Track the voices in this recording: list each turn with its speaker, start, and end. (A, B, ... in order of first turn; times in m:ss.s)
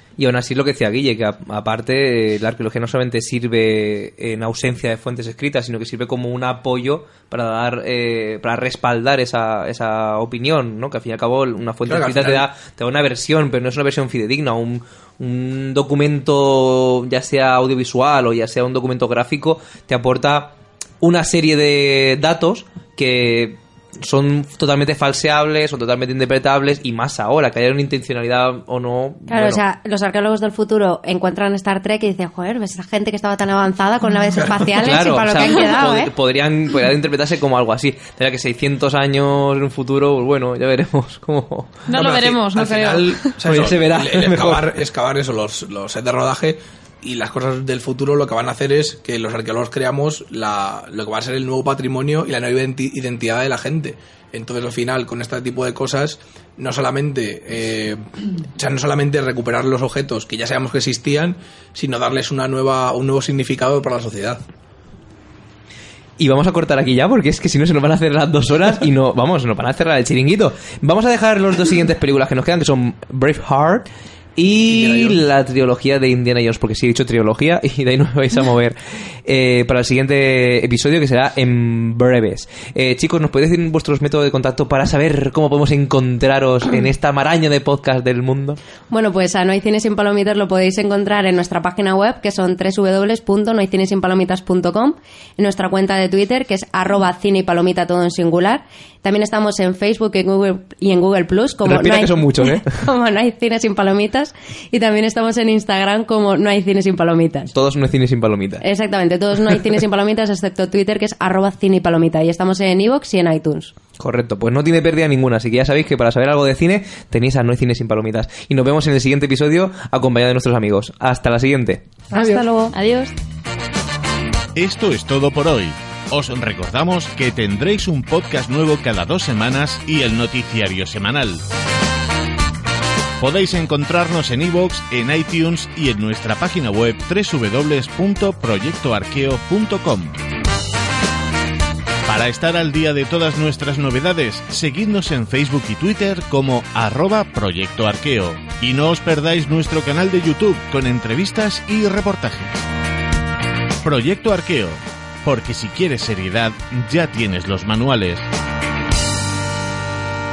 0:00.2-0:29.6 A
0:11.8-0:12.5 B
0:29.3-0:36.1 C
0:34.6-0:41.8 A
0:41.9-0:43.3 D
0:41.9-0:58.0 B
0:43.4-0:44.7 A
0:58.6-1:04.4 B
1:06.2-1:28.6 A
1:14.7-1:15.2 B
1:28.9-1:47.5 C
1:41.6-1:42.7 A
1:47.5-1:48.6 A
1:48.6-1:53.7 C
1:54.0-2:01.9 A
2:02.1-2:02.7 C
2:02.1-2:03.1 D
2:04.6-2:11.4 E
2:13.2-2:20.2 E
2:22.0-2:32.6 E
2:33.8-2:38.2 E